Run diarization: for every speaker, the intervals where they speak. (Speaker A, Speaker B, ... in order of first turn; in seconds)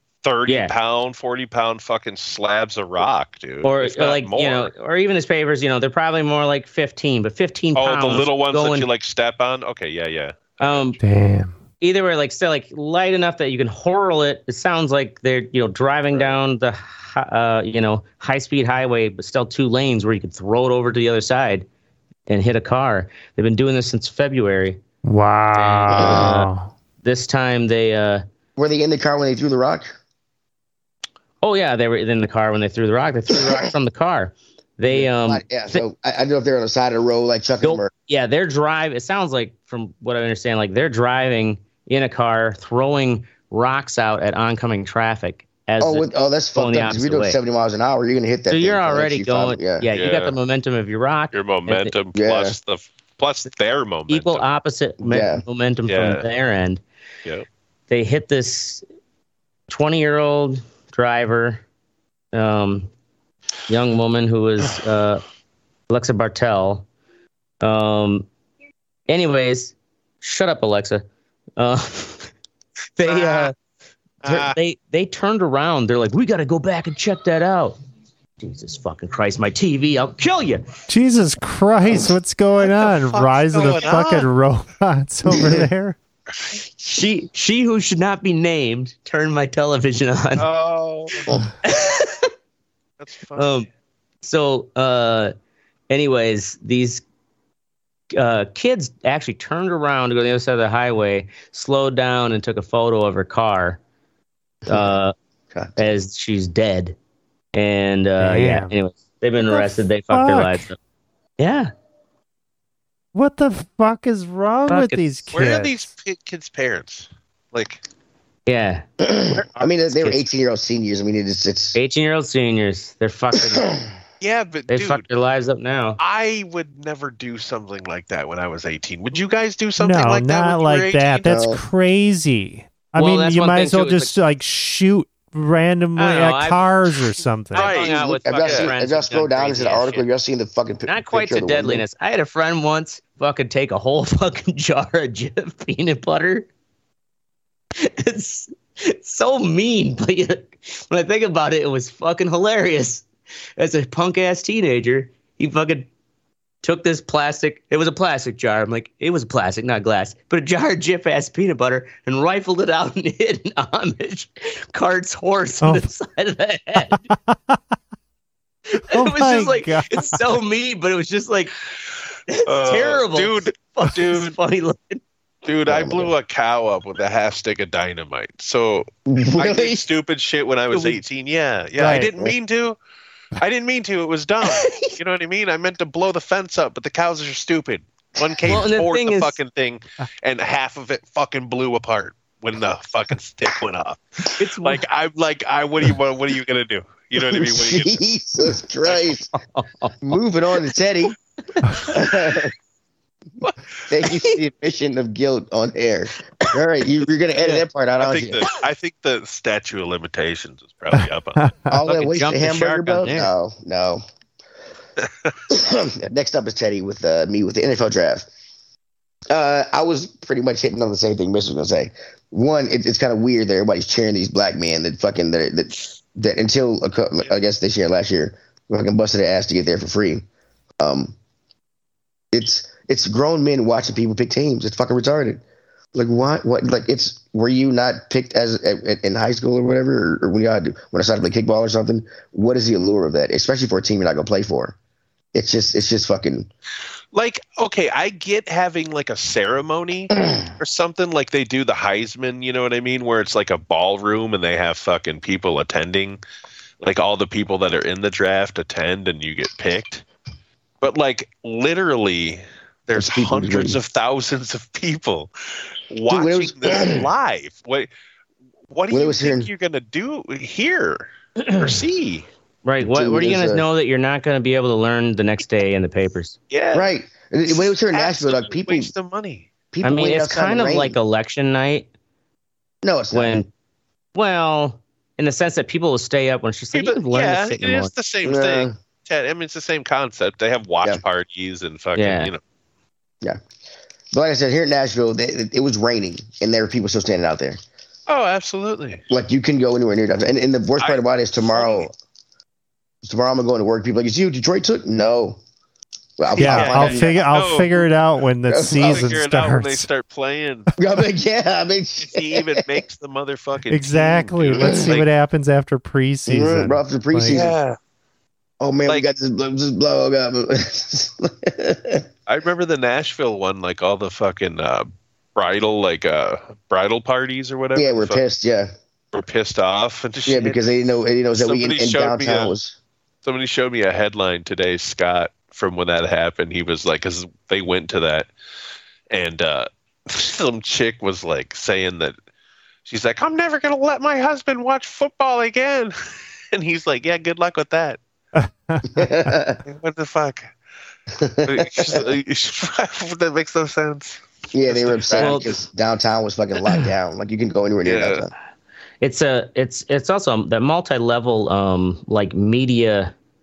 Speaker A: 0.2-4.7, 7.8-11.0, 16.1-16.4, 49.9-50.4, 51.3-54.5, 55.9-56.2, 73.0-73.5, 74.2-74.5, 82.6-84.3, 90.4-91.2, 93.0-93.6, 115.3-117.8, 124.2-125.0, 126.0-131.3, 137.5-138.7, 172.4-174.3, 175.4-182.8, 183.4-198.0, 198.8-199.1, 207.4-211.4, 247.1-256.2, 256.8-260.0, 260.8-265.3, 265.9-267.9, 268.7-272.3, 276.5-276.9, 277.5-279.5, 286.7-292.4, 298.1-299.0, 300.8-301.9, 306.4-307.9, 308.8-310.7, 312.0-315.1, 317.3-317.8, 322.3-328.2, 329.1-330.6, 331.3-332.5, 333.2-338.3, 339.1-342.1, 342.9-345.9, 346.5-348.0, 349.6-350.5, 351.4-355.6, 357.8-358.2
Speaker B: 0.5-0.8, 3.6-8.9, 10.6-11.0, 11.8-21.6, 22.3-24.8, 25.5-26.5, 27.0-28.2, 31.4-35.8, 37.6-47.4, 48.5-51.9, 54.1-56.8, 57.9-58.8, 59.7-61.6, 62.3-62.9, 63.7-65.2, 65.9-66.8, 67.6-68.3, 69.1-71.0, 71.6-72.3, 73.0-73.5, 74.2-77.8, 78.4-80.6, 86.6-90.5, 91.6-92.3, 93.3-93.7, 94.2-95.3, 95.9-97.0, 98.1-103.8, 104.7-105.1, 105.8-107.0, 107.5-110.8, 111.4-111.7, 114.7-115.2, 118.5-120.2, 121.7-123.7, 124.7-126.0, 133.0-134.1, 135.9-136.7, 137.5-140.1, 140.9-146.5, 147.8-153.1, 153.6-155.9, 156.6-167.0, 168.7-171.5, 172.3-175.0, 180.7-181.0, 184.4-184.9, 188.4-189.4, 194.4-194.8, 199.4-200.1, 201.5-202.0, 211.9-213.3, 272.6-276.4, 279.8-281.9, 283.1-283.5, 284.1-287.9, 291.9-292.3, 355.2-355.5, 359.0-363.1
Speaker C: 11.0-11.5, 25.0-26.7, 80.9-85.9, 108.2-108.7, 109.5-110.7, 113.1-115.9, 129.8-137.7, 165.6-165.9, 166.9-167.6, 168.9-170.2, 181.8-182.1, 211.0-211.7, 306.4-309.9, 313.7-317.4, 348.4-349.3
Speaker D: 25.9-26.3, 28.6-29.9, 34.8-37.9, 45.8-49.9, 52.1-52.5, 55.0-55.4, 85.3-85.6, 105.5-105.9, 119.0-121.8, 123.3-123.9, 131.2-131.6, 137.8-141.8, 175.7-176.1, 179.1-179.8, 197.1-199.3, 200.0-201.2, 201.8-202.5, 203.9-208.4, 211.7-214.0, 215.5-218.3, 219.3-230.2, 230.8-231.2, 232.3-235.4, 235.9-244.8, 245.3-246.5, 262.9-263.8, 266.1-267.1, 268.9-269.5, 272.8-273.6, 276.7-278.9, 279.7-281.0, 282.8-283.4, 288.2-288.7, 294.1-297.6, 299.1-301.9, 303.0-305.4, 306.2-307.1, 308.5-309.2, 310.8-312.7, 314.6-314.9, 316.3-317.5, 318.6-322.1, 327.7-328.7, 330.2-332.8, 348.9-349.6, 351.1-352.1, 354.5-358.3